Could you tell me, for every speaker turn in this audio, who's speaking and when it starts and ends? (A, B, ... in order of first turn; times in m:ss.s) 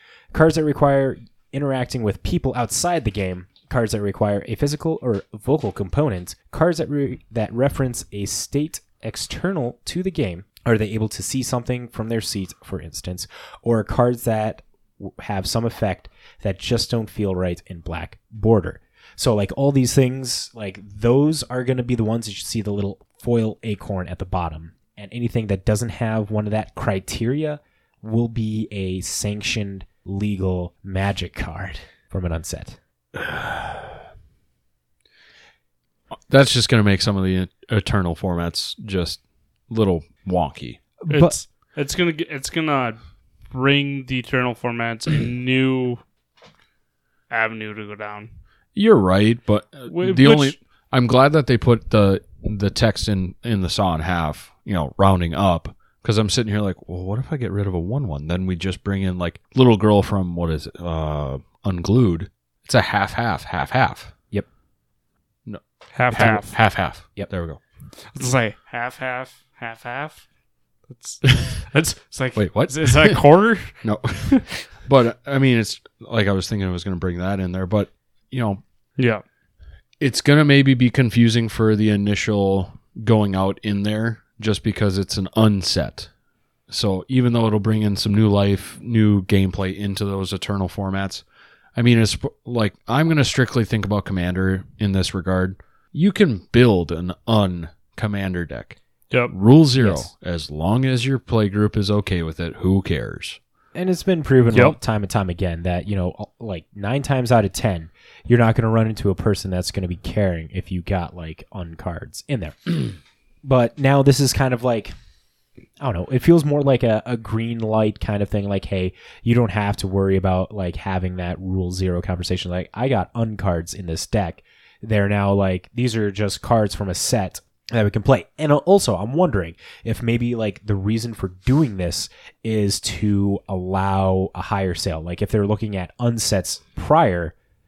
0:00.3-0:32.8 A
0:33.2-0:33.9 B
0:36.3-0:40.8 B
0:41.1-0:41.4 A
0:41.1-0:43.0 C
0:43.5-0:46.0 C
0:47.3-0:48.3 C
0:48.8-1:04.1 B
0:49.9-0:50.6 C
1:05.5-1:07.6 B
1:06.0-1:06.6 C
1:08.1-1:10.2 C
1:10.9-1:14.4 C
1:12.4-1:13.2 B
1:13.8-1:18.6 B
1:19.0-1:19.2 C
1:20.0-1:26.1 B
1:26.7-1:31.2 B
1:31.8-1:38.8 B
1:39.3-1:43.4 B
1:39.8-1:40.1 A
1:43.7-1:54.9 A
1:55.8-2:17.3 A